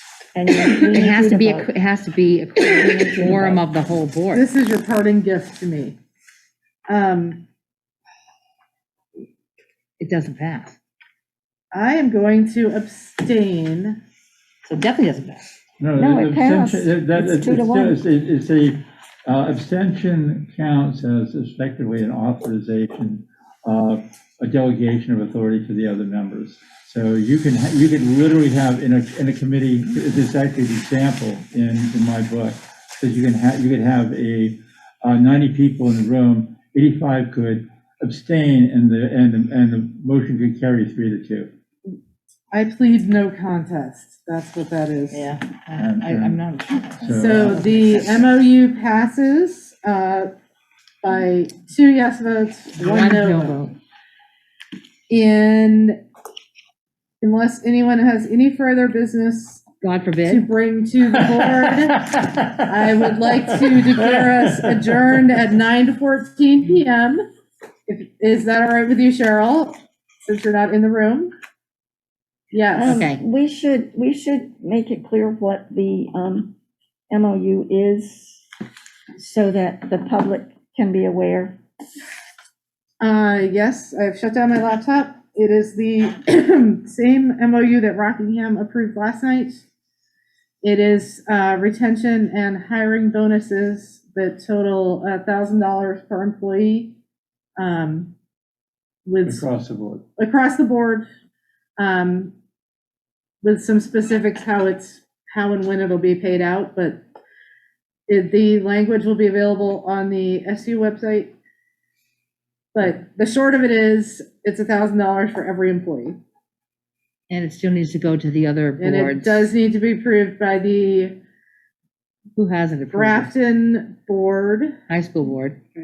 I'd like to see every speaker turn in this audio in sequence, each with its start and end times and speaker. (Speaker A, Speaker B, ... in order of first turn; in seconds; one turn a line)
Speaker A: 0.3-1.7
Speaker B: 0.8-4.5
Speaker A: 2.6-3.6
Speaker C: 4.3-6.0
Speaker C: 6.9-7.4
Speaker B: 10.0-10.8
Speaker C: 11.7-14.0
Speaker B: 14.7-15.5
Speaker D: 15.8-41.5
Speaker A: 16.0-18.0
Speaker C: 42.5-45.3
Speaker B: 45.1-48.3
Speaker D: 45.8-46.4
Speaker D: 47.0-47.6
Speaker C: 47.1-50.3
Speaker C: 51.0-53.6
Speaker B: 52.8-53.8
Speaker C: 55.1-56.0
Speaker C: 57.2-59.7
Speaker B: 59.8-60.5
Speaker C: 60.3-62.1
Speaker D: 61.0-65.4
Speaker C: 62.7-67.2
Speaker C: 67.9-71.3
Speaker C: 72.5-73.0
Speaker A: 72.7-76.5
Speaker B: 72.8-73.2
Speaker A: 77.1-78.5
Speaker A: 79.2-81.6
Speaker C: 83.0-89.6
Speaker C: 90.6-97.0
Speaker C: 97.6-98.1
Speaker C: 99.1-99.5
Speaker D: 99.2-100.0
Speaker C: 100.2-101.1
Speaker C: 101.8-102.3
Speaker C: 103.4-107.0
Speaker C: 108.1-111.3
Speaker C: 112.8-116.2
Speaker B: 117.3-119.5
Speaker C: 118.8-121.2
Speaker B: 122.3-123.3
Speaker C: 122.9-124.7
Speaker B: 124.9-125.6